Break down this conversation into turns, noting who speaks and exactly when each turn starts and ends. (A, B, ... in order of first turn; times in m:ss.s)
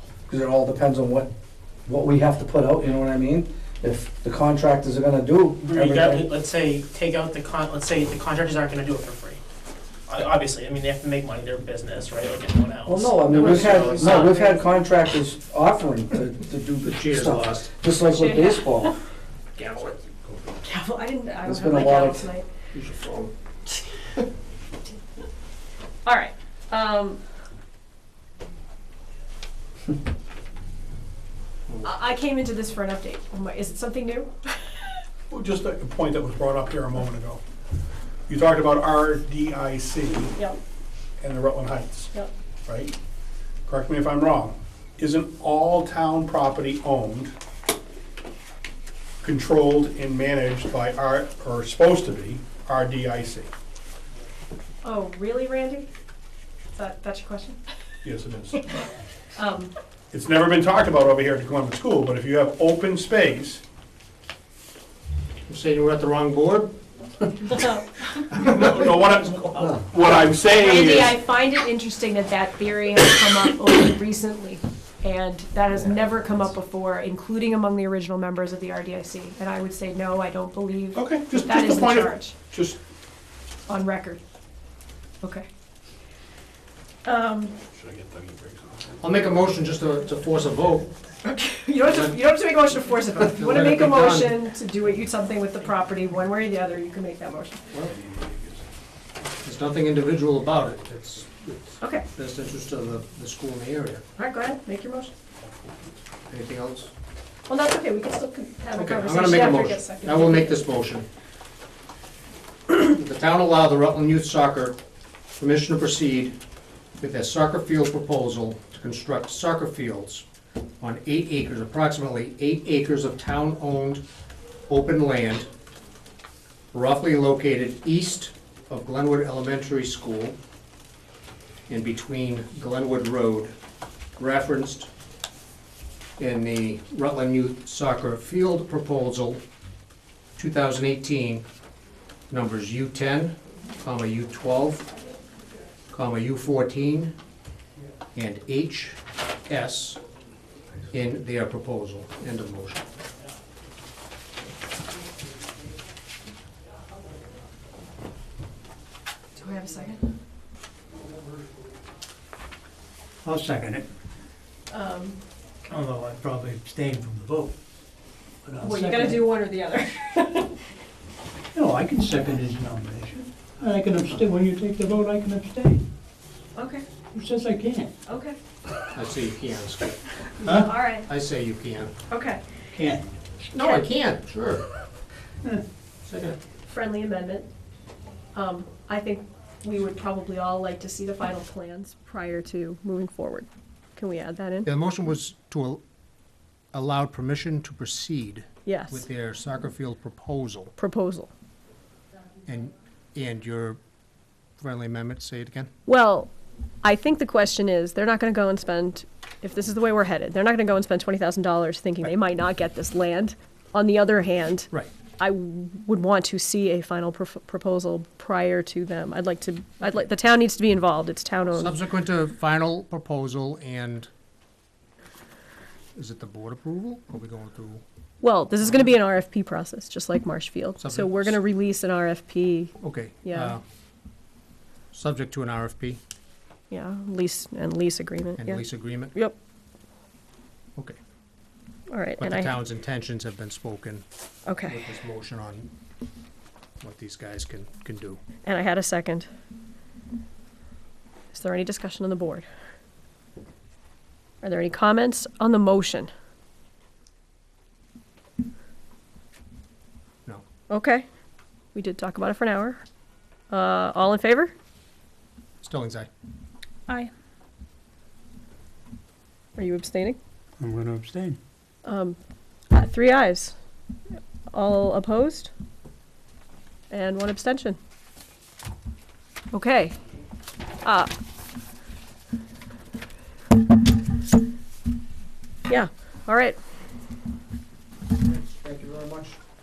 0:00.3-0:01.3 A
0:01.9-0:06.3 A
0:05.6-0:09.4 B
0:10.1-0:14.5 B
0:12.8-0:19.0 A
0:13.3-0:14.2 C
0:13.8-0:14.6 D
0:16.8-0:17.7 C
0:18.0-0:18.9 D
0:19.6-0:20.4 C
0:20.6-0:22.5 D
0:21.5-0:22.3 A
0:22.7-0:23.3 C
0:26.0-0:27.2 D
0:31.8-0:34.8 D
0:35.3-0:37.4 E
0:38.3-0:40.3 E
0:41.2-0:42.1 E
0:42.7-0:43.0 E
0:43.7-0:47.3 E
0:49.2-0:53.5 E
0:54.8-0:55.9 D
0:56.7-0:57.6 D
0:58.0-0:58.7 E
0:59.4-0:59.7 D
1:00.1-1:03.6 E
1:05.5-1:06.8 C
1:08.3-1:11.2 E
1:10.6-1:22.4 D
1:21.0-1:22.8 E
1:23.7-1:24.2 D
1:25.2-1:25.5 D
1:27.0-1:27.6 D
1:29.0-1:30.9 C
1:31.2-1:37.6 D
1:31.8-1:32.2 C
1:33.2-1:34.3 C
1:37.7-1:38.0 C
1:39.4-1:44.0 C
1:41.8-1:42.1 D
1:44.2-1:45.1 D
1:45.7-1:46.9 C
1:47.5-1:50.6 D
1:48.7-1:51.1 C
1:52.7-1:54.8 C
1:55.4-1:56.4 C
1:57.0-2:00.2 C
2:00.8-2:04.0 C
2:04.7-2:05.5 C
2:06.7-2:10.4 C
2:11.7-2:13.5 C
2:14.2-2:14.9 C
2:16.2-2:19.4 C
2:20.4-2:21.4 C
2:22.3-2:24.9 C
2:25.9-2:27.1 C
2:28.2-2:30.0 C
2:30.9-2:32.9 C
2:39.4-2:40.0 D
2:43.2-2:43.9 F
2:44.7-2:45.2 D
2:45.6-2:47.2 B
2:46.3-2:47.5 F
2:48.5-2:49.3 F
2:48.6-2:50.6 D
2:51.5-2:55.8 F
2:56.6-2:56.8 D
2:57.2-2:57.9 F
2:58.1-2:58.4 D
2:58.9-3:00.2 C
3:00.4-3:01.1 D
3:00.4-3:00.8 F
3:00.9-3:01.9 C
3:02.1-3:02.4 D
3:02.7-3:03.2 F
3:03.5-3:04.7 C
3:06.0-3:06.4 C
3:06.7-3:07.5 D
3:08.3-3:14.7 D
3:14.6-3:15.8 C
3:16.7-3:20.7 C
3:18.6-3:19.0 D
3:20.8-3:21.3 D
3:22.5-3:23.8 C
3:24.6-3:25.7 C
3:25.9-3:26.3 D
3:26.8-3:41.7 D
3:41.6-3:44.1 C
3:46.0-3:47.8 C
3:48.2-3:53.6 D
3:50.8-3:51.4 C
3:52.8-3:53.6 C
3:54.9-3:56.0 C
3:56.7-3:59.4 D
3:58.4-3:59.1 C
4:01.9-4:02.6 D
4:02.2-4:04.0 C
4:04.5-4:05.0 D
4:04.7-4:05.7 C
4:06.8-4:08.2 C
4:08.4-4:09.3 D
4:11.3-4:12.5 D
4:14.4-4:16.1 D
4:20.7-4:21.1 D
4:21.8-4:22.8 D
4:23.5-4:24.5 D
4:25.6-4:26.1 C
4:29.6-4:30.2 D
4:30.6-4:31.4 F
4:31.8-4:32.2 D
4:32.7-4:33.5 D
4:34.5-4:35.5 D
4:36.9-4:37.8 D
4:39.5-4:40.0 D
4:40.8-4:41.1 D
4:45.7-4:46.6 D
4:48.3-4:49.4 A